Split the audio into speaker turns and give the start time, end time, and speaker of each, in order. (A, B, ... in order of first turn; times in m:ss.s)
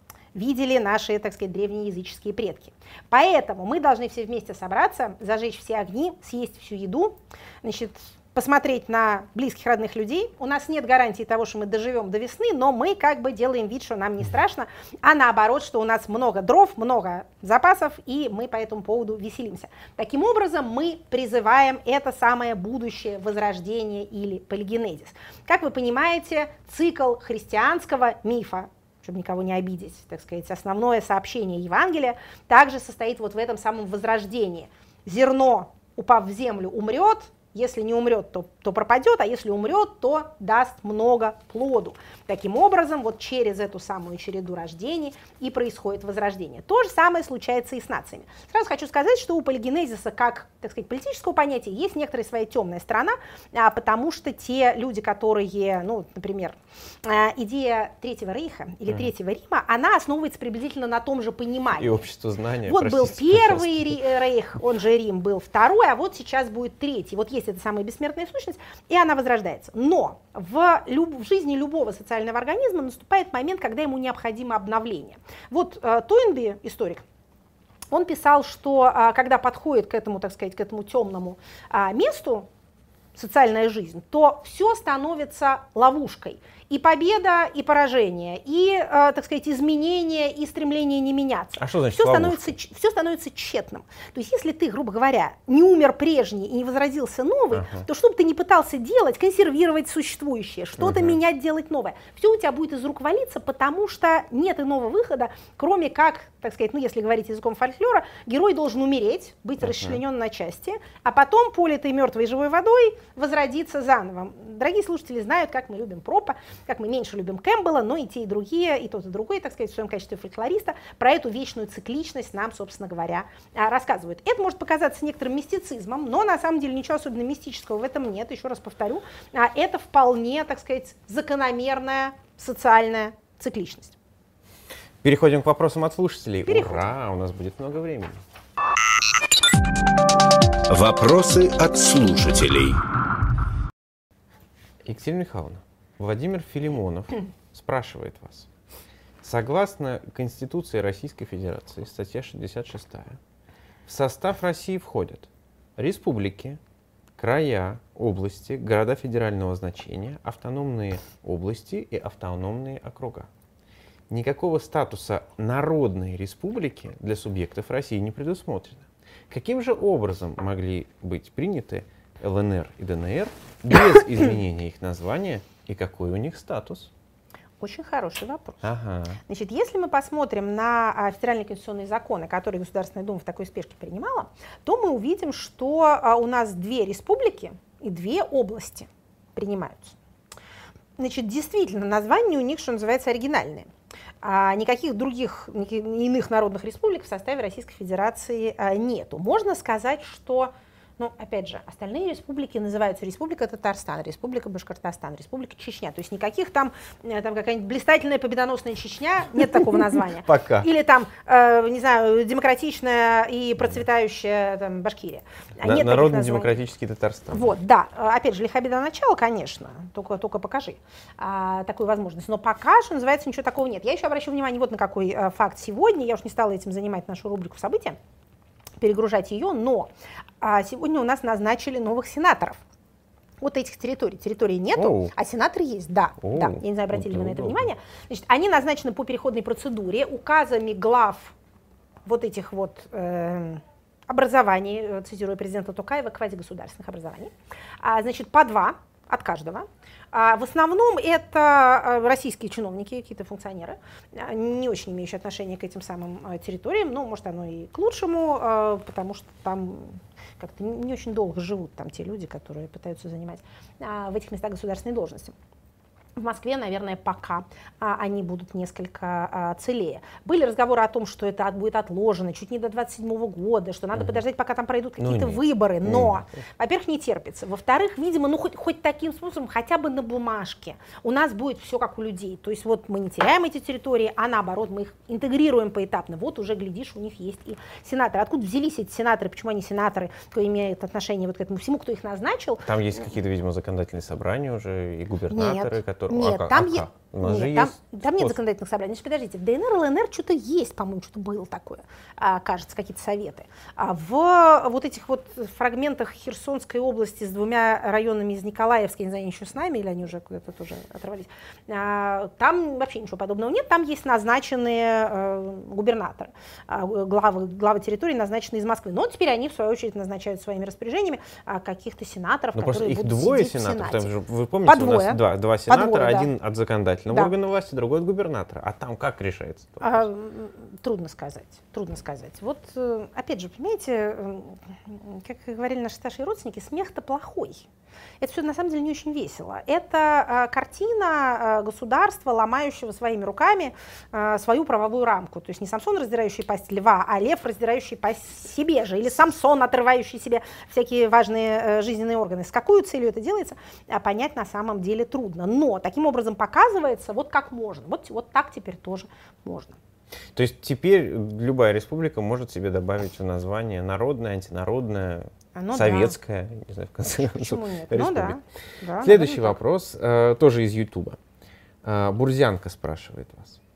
0:00.3-1:02.0 A
1:01.8-1:04.0 B
1:02.6-1:17.0 A
1:17.9-1:22.5 A
1:23.1-2:13.9 A
1:31.6-1:32.6 B
1:37.5-1:37.8 B
1:40.8-1:41.2 B
1:49.6-1:50.0 B
2:15.0-2:18.2 B
2:16.5-2:16.9 A
2:20.7-2:22.8 C
2:24.8-2:28.5 B
2:29.2-2:33.2 B
2:33.9-2:36.6 B
2:37.2-2:43.3 B
2:44.1-2:56.9 B
2:57.6-2:58.6 A
2:58.6-2:59.2 B
2:59.3-3:10.0 A
3:11.0-3:13.7 A
3:14.2-3:36.6 A
3:30.2-3:30.7 B
3:35.6-3:37.5 B
3:37.3-3:48.0 A
3:48.8-3:52.6 A
3:53.4-4:01.3 A
3:54.8-3:55.1 B
3:56.2-3:57.7 B
4:02.0-4:25.3 A
4:26.2-4:52.7 A
4:35.0-4:36.2 B
4:52.6-4:58.4 B
4:55.3-5:24.1 A
5:22.5-5:30.1 B
5:24.6-5:26.3 A
5:29.8-5:37.6 A
5:38.2-5:59.8 A
6:00.3-6:08.4 B
6:05.5-6:06.2 A
6:07.1-6:09.6 A
6:09.0-6:11.2 B
6:11.8-6:13.6 B